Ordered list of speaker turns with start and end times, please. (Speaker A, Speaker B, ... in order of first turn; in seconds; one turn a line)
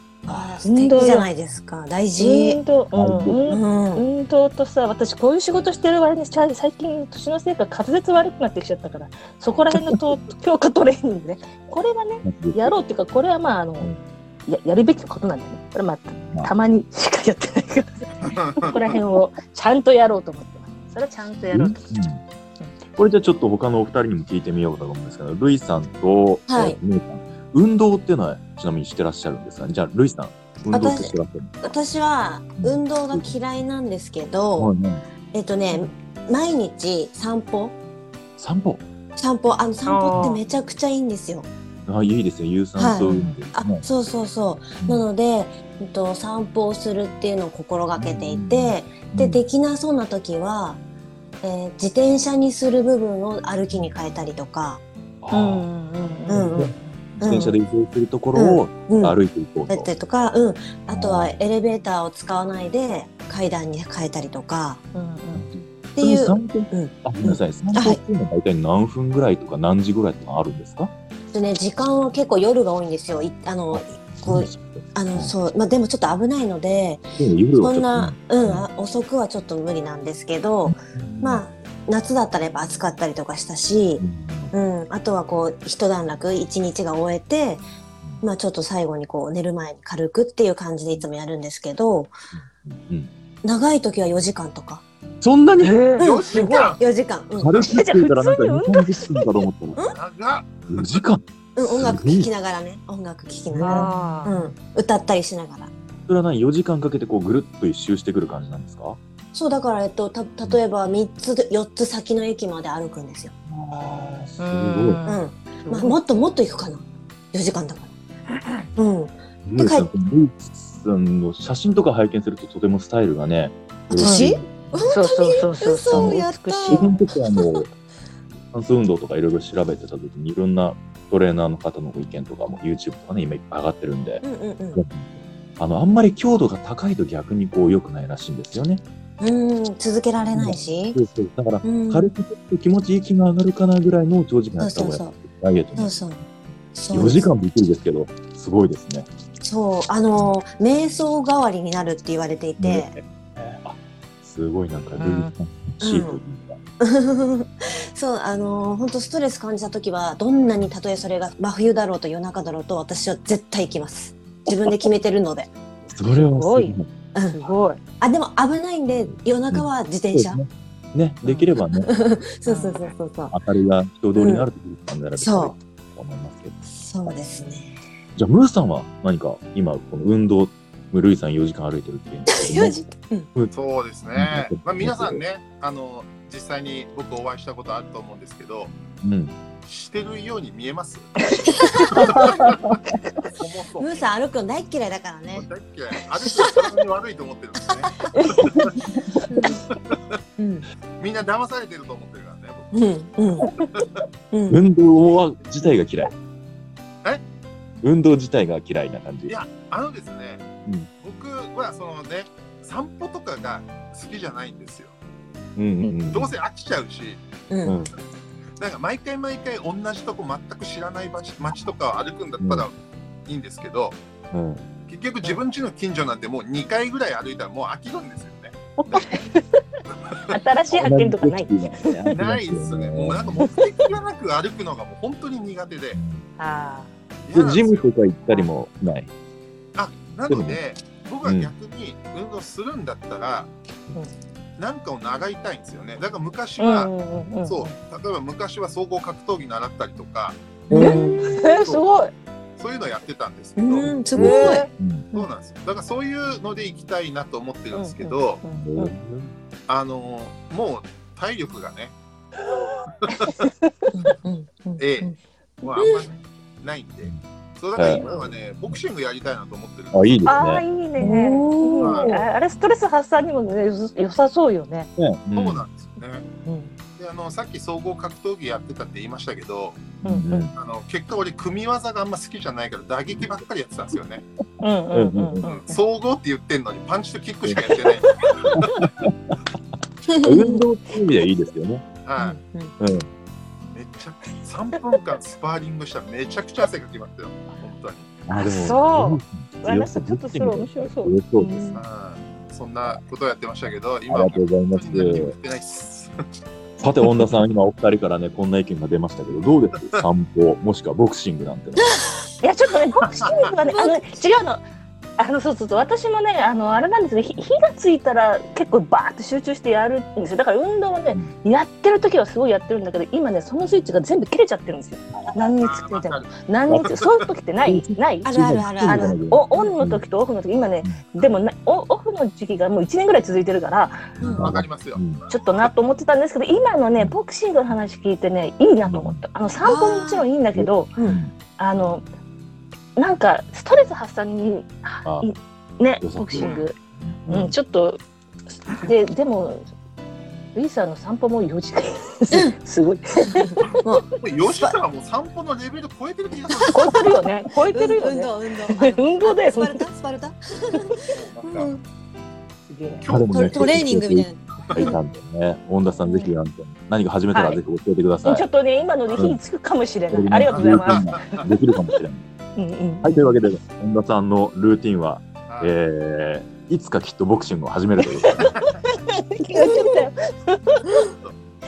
Speaker A: 0.2-2.6
Speaker B: 0.6-1.3
Speaker B: 2.2-13.9
Speaker C: 2.9-3.5
Speaker A: 3.5-4.1
Speaker C: 12.2-12.7
Speaker B: 14.4-21.9
Speaker D: 18.2-18.8
Speaker C: 21.5-22.2
Speaker C: 22.9-31.7
Speaker A: 26.5-26.8
Speaker A: 30.7-34.7
Speaker C: 32.6-33.4
Speaker C: 34.6-35.0
Speaker A: 35.3-37.8
Speaker C: 38.4-38.9
Speaker A: 39.2-41.5
Speaker B: 39.9-40.4
Speaker C: 41.9-43.8
Speaker A: 42.8-50.8
Speaker B: 43.0-43.4
Speaker C: 44.8-45.0
Speaker C: 48.0-49.4
Speaker A: 51.4-54.8
Speaker C: 55.2-55.7
Speaker B: 55.3-57.0
Speaker A: 56.3-57.6
Speaker C: 56.3-59.9
Speaker A: 58.4-59.2
Speaker A: 59.7-64.8
Speaker C: 60.9-61.3
Speaker B: 64.9-65.5
Speaker C: 65.3-70.9
Speaker A: 66.0-68.0
Speaker A: 71.3-87.7
Speaker C: 73.7-75.3
Speaker C: 77.2-78.7
Speaker C: 80.7-81.4
Speaker C: 84.0-84.5
Speaker A: 88.2-92.1
Speaker C: 92.3-93.1
Speaker A: 93.4-94.8
Speaker C: 95.2-95.8
Speaker B: 95.6-96.8
Speaker D: 96.0-96.8
Speaker A: 96.0-97.7
Speaker C: 97.4-99.8
Speaker B: 97.6-99.3
Speaker D: 99.9-101.0
Speaker C: 100.7-102.3
Speaker A: 101.6-105.7
Speaker C: 103.5-104.2
Speaker B: 103.6-104.3
Speaker C: 106.1-109.0
Speaker A: 109.3-113.3
Speaker C: 113.5-115.0
Speaker B: 114.4-116.0
Speaker A: 115.0-117.9
Speaker B: 118.3-118.7
Speaker A: 118.8-119.9
Speaker C: 119.4-124.9
Speaker A: 123.9-127.6
Speaker B: 124.0-124.3
Speaker B: 124.9-127.0
Speaker C: 125.9-126.2
Speaker C: 126.7-127.7
Speaker C: 128.5-138.8
Speaker A: 134.2-134.8
Speaker A: 139.2-141.0
Speaker C: 140.3-145.9
Speaker A: 141.6-142.1
Speaker A: 144.6-145.2
Speaker A: 145.8-146.2
Speaker A: 146.8-147.2
Speaker C: 146.9-149.1
Speaker A: 149.4-152.9
Speaker C: 152.6-156.6
Speaker B: 155.0-155.3
Speaker A: 155.8-156.2
Speaker A: 156.8-165.5
Speaker C: 165.9-166.9
Speaker B: 166.1-166.8
Speaker A: 167.1-167.4
Speaker B: 167.3-167.8
Speaker A: 168.0-170.4
Speaker C: 169.5-171.9
Speaker B: 171.2-171.5
Speaker A: 171.8-173.3
Speaker B: 172.4-172.9
Speaker C: 173.3-177.1
Speaker A: 174.2-174.5
Speaker A: 175.2-175.6
Speaker A: 176.7-177.8
Speaker C: 178.2-182.8
Speaker A: 182.3-183.3
Speaker D: 183.5-188.7
Speaker C: 184.1-185.2
Speaker C: 189.0-189.3
Speaker D: 189.7-191.2
Speaker B: 191.3-192.2
Speaker A: 191.8-192.3
Speaker D: 191.9-194.0
Speaker C: 192.1-192.3
Speaker B: 192.9-193.2
Speaker A: 193.8-195.5
Speaker D: 195.3-198.7
Speaker A: 198.0-198.7
Speaker B: 198.1-198.7
Speaker A: 199.3-199.7
Speaker D: 199.7-200.2
Speaker A: 200.4-200.7
Speaker D: 201.0-202.7
Speaker A: 202.7-203.5
Speaker D: 203.6-204.0
Speaker A: 204.3-204.6
Speaker C: 204.5-206.1
Speaker C: 207.8-209.4
Speaker D: 209.3-210.5
Speaker D: 211.0-214.9
Speaker C: 215.6-216.3
Speaker D: 216.1-217.2
Speaker A: 217.5-217.8
Speaker C: 217.6-217.9
Speaker D: 218.6-222.8
Speaker C: 222.4-222.7
Speaker D: 223.3-224.0
Speaker C: 224.3-224.7
Speaker D: 224.9-229.0
Speaker B: 228.9-229.6
Speaker B: 230.3-232.1
Speaker C: 230.7-233.5
Speaker D: 232.1-236.0
Speaker C: 235.9-236.2
Speaker B: 236.4-236.9
Speaker D: 237.2-237.9
Speaker C: 237.3-239.1
Speaker D: 239.8-243.5
Speaker C: 240.3-240.6
Speaker C: 241.2-241.5
Speaker D: 244.6-246.9
Speaker B: 246.6-247.7
Speaker D: 247.5-250.4
Speaker A: 250.7-251.4
Speaker C: 250.7-251.1
Speaker B: 250.7-252.1
Speaker D: 251.5-251.9
Speaker D: 252.6-253.9
Speaker A: 253.6-254.7
Speaker C: 253.9-255.0
Speaker B: 254.2-255.2
Speaker D: 255.1-258.4
Speaker B: 257.7-258.9
Speaker C: 258.5-259.3
Speaker D: 259.7-262.0
Speaker D: 263.0-263.4
Speaker B: 263.2-263.7
Speaker A: 263.9-265.1
Speaker D: 264.8-270.3
Speaker A: 265.8-266.1
Speaker C: 267.8-268.1
Speaker B: 267.9-268.3
Speaker C: 269.9-270.6
Speaker B: 270.2-274.9
Speaker A: 271.0-272.2
Speaker D: 271.8-272.2
Speaker C: 275.0-275.7
Speaker D: 275.4-276.3
Speaker B: 276.4-276.8
Speaker D: 277.0-279.9
Speaker C: 280.0-280.5
Speaker B: 280.0-280.5
Speaker D: 280.6-284.2
Speaker B: 284.6-285.8
Speaker C: 284.9-285.4
Speaker D: 285.4-288.7
Speaker C: 288.5-289.4
Speaker A: 290.1-290.6
Speaker C: 290.2-291.8
Speaker D: 292.0-292.4
Speaker A: 292.2-292.7
Speaker C: 292.8-293.1
Speaker D: 293.7-298.1
Speaker C: 298.3-301.6
Speaker B: 298.3-301.7
Speaker A: 301.4-301.8
Speaker D: 301.8-306.3
Speaker C: 304.1-305.3
Speaker C: 306.8-312.0
Speaker B: 312.4-314.6
Speaker D: 313.1-313.4
Speaker A: 313.7-314.1
Speaker B: 315.2-328.3
Speaker D: 325.6-326.3
Speaker C: 326.7-326.9
Speaker C: 327.6-330.0
Speaker A: 328.2-329.2
Speaker B: 328.8-334.1
Speaker C: 334.2-335.2
Speaker A: 334.2-334.5
Speaker D: 334.4-335.7
Speaker B: 335.3-340.9
Speaker C: 338.9-339.2
Speaker A: 339.6-340.3
Speaker C: 340.5-341.3
Speaker B: 341.6-342.0
Speaker B: 343.0-346.8
Speaker C: 346.0-347.6
Speaker D: 346.3-346.6
Speaker B: 347.3-348.0
Speaker B: 348.7-349.7
Speaker B: 350.5-353.8
Speaker A: 353.3-354.8
Speaker D: 353.7-357.1
Speaker A: 356.5-357.1
Speaker B: 356.7-359.9
Speaker A: 357.7-361.8
Speaker D: 361.1-361.7
Speaker B: 362.7-363.0
Speaker D: 363.0-363.8
Speaker C: 363.1-368.4
Speaker A: 363.3-364.9
Speaker B: 367.3-367.6
Speaker B: 368.2-371.5
Speaker C: 370.1-372.2
Speaker D: 370.5-371.4
Speaker B: 372.6-373.2
Speaker C: 373.0-378.5
Speaker D: 375.5-375.8
Speaker B: 378.2-381.0
Speaker A: 379.5-380.0